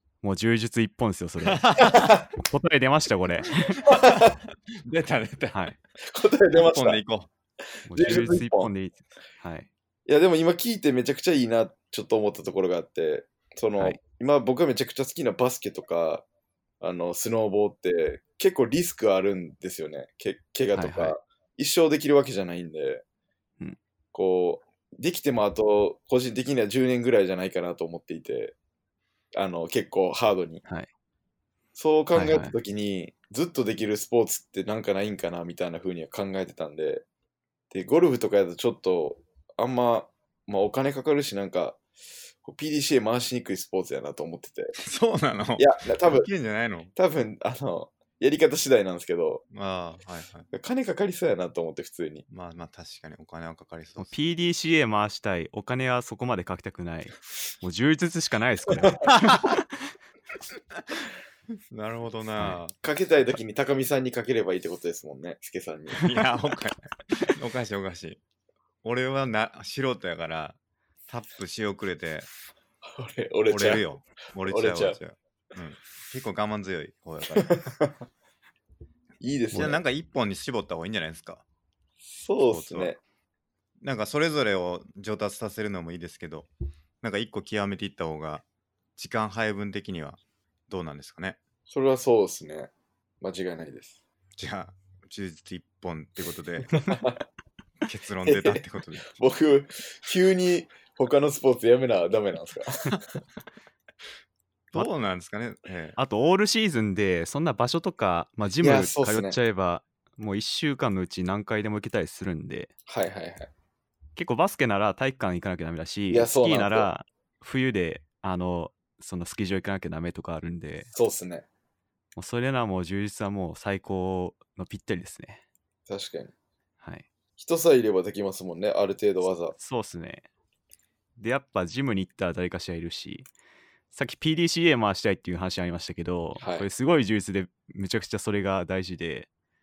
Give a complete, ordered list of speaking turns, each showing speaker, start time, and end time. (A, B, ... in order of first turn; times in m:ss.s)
0:00.2-0:03.8 A
0:01.4-0:02.2 B
0:01.8-0:02.2 C
0:03.8-0:05.7 B
0:03.8-0:04.4 C
0:06.0-0:07.0 C
0:06.5-0:07.3 B
0:07.9-0:08.7 C
0:07.9-0:09.7 A
0:10.1-0:16.2 C
0:16.8-0:23.0 C
0:20.7-0:21.1 A
0:24.1-0:28.5 C
0:29.3-0:30.6 C
0:31.8-0:37.0 C
0:32.1-0:32.5 A
0:37.7-0:41.8 C
0:42.4-0:44.7 C
0:44.8-0:46.9 B
0:45.6-0:46.3 C
0:47.0-0:49.4 C
0:49.5-0:50.5 B
0:50.5-0:52.2 C
0:52.3-0:54.1 B
0:54.0-0:59.6 A
0:59.1-0:59.5 B
1:01.7-1:02.7 B
1:02.8-1:06.1 C
1:06.0-1:08.2 B
1:08.8-1:12.3 B
1:12.8-1:13.8 C
1:13.5-1:17.6 B
1:14.4-1:15.0 C
1:17.4-1:18.0 C
1:19.2-1:19.8 C
1:19.5-1:21.4 B
1:22.0-1:23.0 C
1:22.5-1:22.9 B
1:23.8-1:26.5 B
1:27.0-1:28.4 B
1:29.0-1:31.4 B
1:31.7-1:34.0 C
1:34.4-1:36.8 B
1:36.8-1:37.2 C
1:37.8-1:39.1 B
1:38.2-1:43.2 C
1:44.7-1:46.0 B
1:46.0-1:52.7 A
1:48.6-1:49.4 C
1:52.9-1:53.5 C
1:54.2-2:00.9 A
1:56.1-1:56.9 C
2:00.9-2:01.4 C
2:02.2-2:05.4 A
2:05.9-2:06.3 C
2:06.8-2:07.1 A
2:07.4-2:09.5 C
2:09.5-2:10.3 A
2:11.2-2:13.3 A
2:13.9-2:19.3 A
2:16.4-2:16.7 C